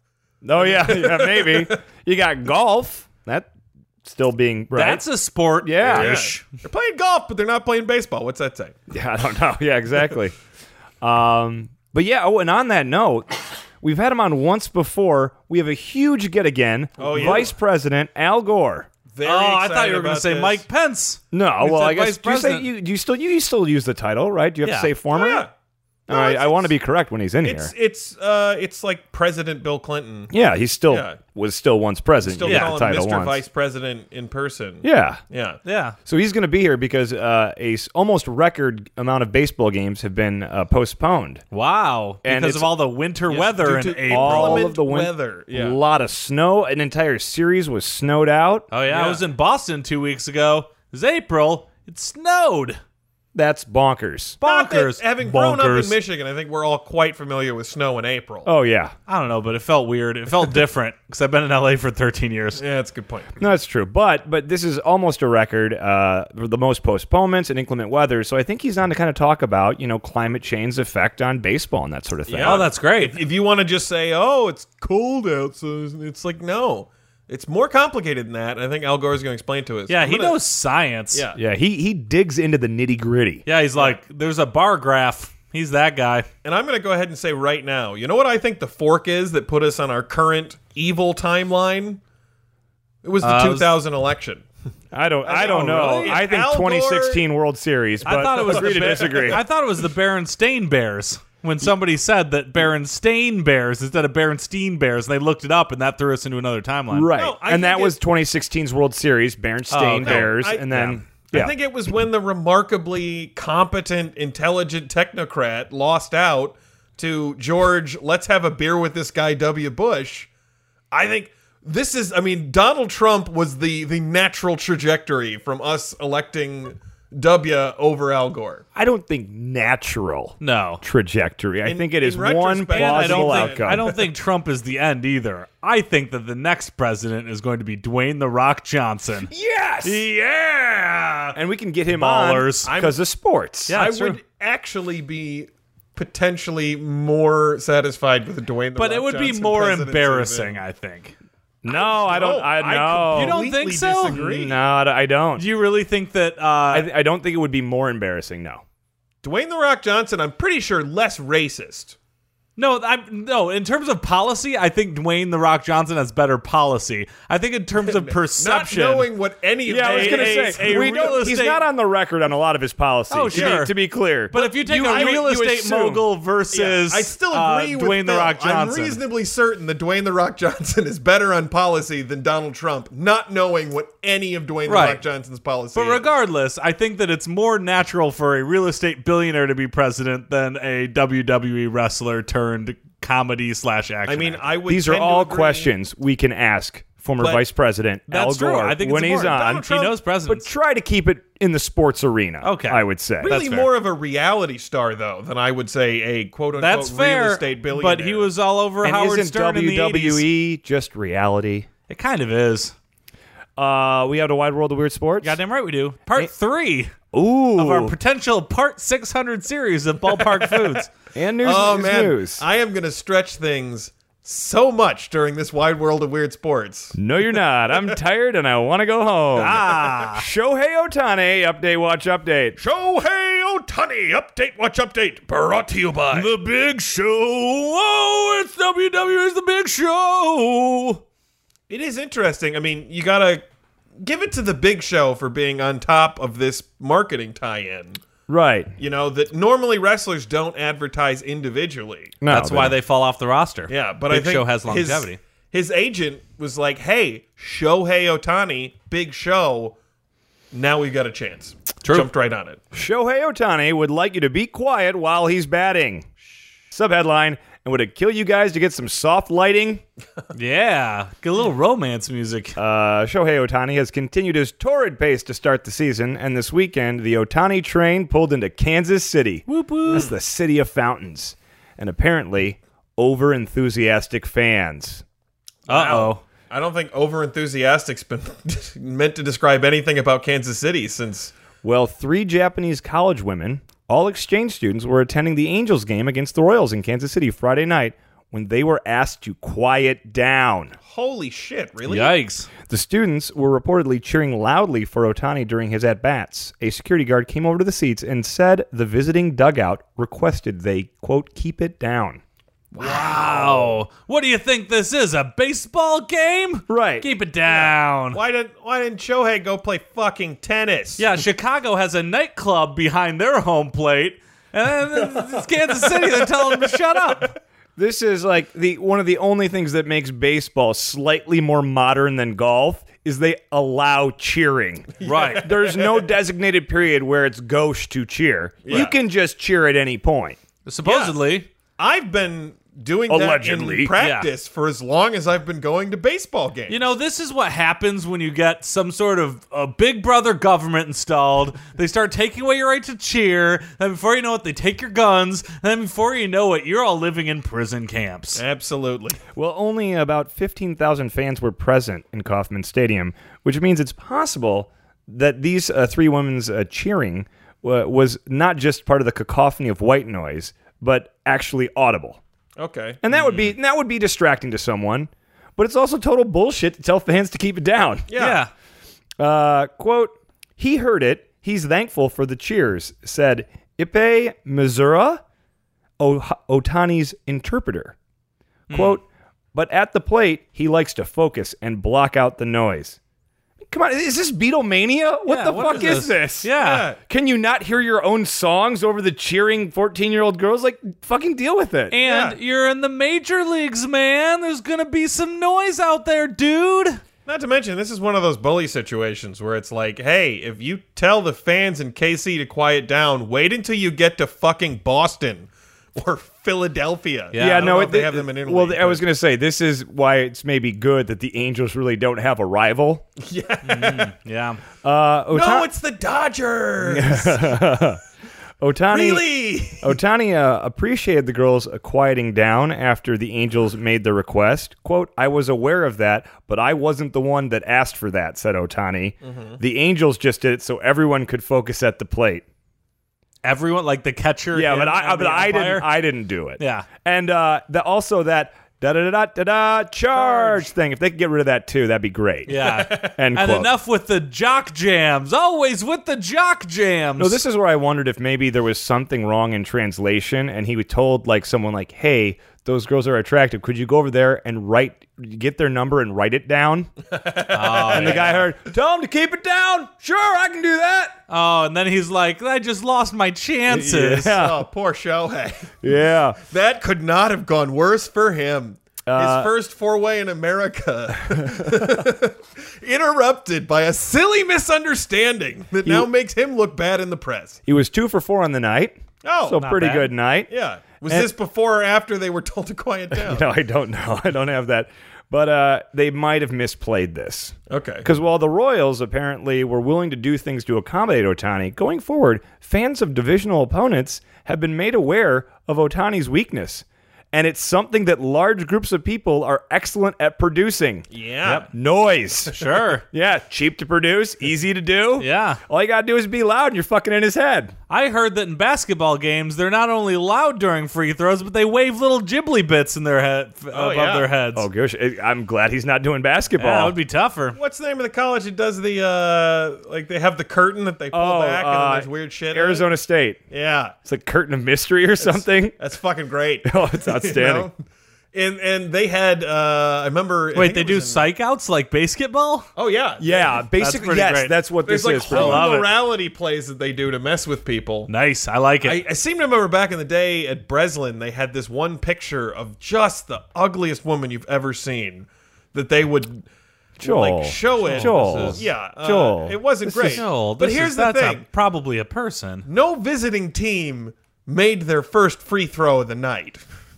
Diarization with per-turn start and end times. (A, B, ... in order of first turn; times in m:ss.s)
0:00.4-0:03.5 A
0:00.6-0:01.8 B
0:04.0-0:05.0 A
0:04.7-0:06.5 C
0:05.6-0:06.1 A
0:05.9-0:08.8 B
0:08.9-0:10.4 A
0:11.0-0:18.9 A
0:17.0-0:17.5 B
0:19.1-0:20.6 B
0:19.2-0:22.7 C
0:21.3-0:25.5 A
0:24.6-0:24.9 C
0:25.1-0:25.5 B
0:26.1-0:26.7 B
0:26.1-0:27.7 A
0:27.4-0:30.3 B
0:30.3-0:33.4 A
0:30.9-0:31.2 B
0:32.2-0:35.6 B
0:32.4-0:32.8 C
0:34.8-0:35.2 A
0:35.6-0:36.0 C
0:36.0-0:41.4 A
0:41.5-0:44.7 C
0:42.2-0:42.7 A
0:43.3-0:45.8 B
0:44.1-0:48.7 A
0:48.7-0:52.8 C
0:48.9-0:49.2 B
0:53.3-0:54.4 A
0:54.4-0:56.0 C
0:54.4-0:58.5 B
0:58.4-0:59.0 A
0:59.1-1:02.6 C
1:02.6-1:03.3 B
1:03.4-1:12.7 A
1:12.3-1:20.4 B
1:12.4-1:13.2 C
1:19.9-1:21.2 C
1:21.1-1:21.4 B
1:21.4-1:23.4 A
1:23.5-1:26.3 C
1:26.4-1:32.0 B
1:33.0-1:34.4 B
1:33.2-1:33.7 C
1:34.9-1:39.4 A
1:35.2-1:37.2 B
1:35.4-1:36.2 C
1:38.0-1:47.1 C
1:38.1-1:39.4 B
1:46.9-1:51.5 A
1:47.2-1:48.0 B
1:49.7-1:51.0 C
1:50.0-2:00.3 B
2:00.9-2:08.6 B
2:08.8-2:13.9 A
2:10.4-2:10.8 C
2:11.6-2:14.0 B
2:12.7-2:19.3 C
2:19.3-2:20.0 A
2:19.8-2:21.4 C
2:21.4-2:23.8 A
2:21.9-2:22.7 C
2:22.6-2:23.0 B
2:23.7-2:24.2 C
2:23.7-2:30.6 B
2:28.8-2:31.2 C
2:31.6-2:33.4 A
2:31.7-2:34.6 B
2:33.1-2:34.2 C
2:34.1-2:35.5 A
2:35.4-2:36.9 C
2:36.7-2:38.6 A
2:39.2-2:42.0 B
2:42.6-2:49.1 C
2:47.8-2:51.3 B
2:49.7-2:56.1 A
2:49.8-2:51.6 C
2:53.1-2:53.7 C
2:53.3-2:53.7 B
2:54.3-2:59.0 C
2:54.7-2:55.2 B
2:56.5-3:06.1 B
3:04.7-3:05.0 C
3:05.8-3:14.4 C
3:14.1-3:15.7 B
3:14.7-3:23.3 A
3:18.1-3:20.5 C
3:19.3-3:19.9 B
3:22.4-3:23.7 C
3:23.2-3:28.3 B
3:26.6-3:30.3 C
3:28.8-3:31.7 A
3:31.9-3:32.7 C
3:33.6-3:35.4 A
3:35.2-3:36.9 C
3:37.1-3:38.0 A
3:37.6-3:40.9 C
3:40.2-3:40.8 B
3:41.2-3:42.4 A
3:41.4-3:47.0 B
3:47.0-3:52.6 A
3:49.3-3:50.3 C
3:52.6-3:56.3 B
3:56.1-4:01.0 C
4:01.7-4:03.4 B
4:04.0-4:08.0 B
4:08.3-4:08.7 A
4:08.8-4:12.2 B
4:12.2-4:12.8 A
4:12.3-4:15.2 C
4:13.7-4:19.8 B
4:20.5-4:22.6 B
4:22.7-4:26.1 A
4:26.7-4:29.8 A
4:30.3-4:32.6 C
4:32.6-4:45.0 A
4:39.5-4:40.1 C
4:45.7-4:51.3 B
4:45.7-4:46.2 C
4:51.6-5:00.8 A
5:00.9-5:02.2 B
5:01.9-5:02.5 C
5:02.7-5:12.2 A
5:12.7-5:13.8 B
5:12.8-5:18.2 C
5:16.7-5:17.1 A
5:17.5-5:21.1 B
5:21.0-5:27.3 C
5:25.8-5:26.8 B
5:27.8-5:40.4 A
5:35.0-5:36.1 B
5:35.0-5:35.5 C
5:38.6-5:39.0 B
5:40.7-5:41.5 C
5:40.8-5:41.2 B
5:41.8-5:46.8 B
5:43.1-5:44.0 A
5:44.0-5:44.3 C
5:46.7-5:58.4 C
5:58.4-5:59.2 B
5:59.3-6:12.2 A
6:12.6-6:13.0 B
6:13.0-6:18.1 A
6:13.1-6:13.5 C
6:18.1-6:18.4 B
6:18.2-6:18.5 C
6:19.2-6:25.2 A
6:26.0-6:28.0 A
6:28.7-6:29.0 C
6:28.7-6:33.0 A
6:33.6-6:36.5 A
6:35.3-6:36.9 C
6:36.6-6:37.0 B
6:37.1-6:42.0 A
6:41.9-6:47.0 C
6:42.0-6:42.4 B
6:47.3-6:59.0 B
6:57.3-6:57.7 C
6:57.4-7:03.0 A
7:03.2-7:04.1 B
7:03.6-7:04.6 C
7:04.8-7:05.7 A
7:05.3-7:07.6 B
7:06.8-7:08.0 A
7:08.6-7:22.4 A
7:08.9-7:10.0 B
7:19.2-7:19.6 B
7:23.4-7:25.9 C
7:24.5-7:33.7 A
7:26.6-7:26.9 C
7:32.5-7:37.4 C
7:32.6-7:33.1 B
7:37.2-7:46.9 A
7:47.1-7:48.4 B
7:47.5-7:48.3 C
7:47.9-7:51.2 A
7:51.3-7:54.4 C
7:53.7-7:54.6 A
7:53.9-7:55.8 B
7:55.8-7:56.4 A
7:56.4-8:07.6 B
7:59.1-7:59.5 A
8:01.3-8:02.0 A
8:07.7-8:10.5 A
8:09.2-8:09.6 B
8:09.6-8:10.1 C
8:10.5-8:13.5 B
8:13.1-8:31.1 A
8:17.7-8:18.1 B
8:31.1-8:31.7 B
8:31.7-8:37.8 A
8:32.5-8:33.0 C
8:35.2-8:35.6 C
8:37.9-8:44.7 C
8:43.7-8:44.3 B
8:44.6-8:47.0 A
8:46.6-8:47.6 C
8:47.6-8:52.9 B
8:51.1-8:53.4 A
8:53.5-8:54.0 B
8:54.0-8:55.8 A
8:55.2-8:57.8 B
8:56.6-8:57.7 A
8:58.3-9:01.3 B
9:00.5-9:02.7 C
9:02.8-9:03.6 B
9:03.2-9:05.7 A
9:03.8-9:04.6 C
9:04.9-9:08.1 B
9:05.3-9:05.9 C
9:08.1-9:09.0 C
9:08.8-9:16.4 B
9:17.0-9:20.2 A
9:17.0-9:21.5 B
9:17.8-9:18.7 C
9:20.0-9:22.7 C
9:22.7-9:26.6 B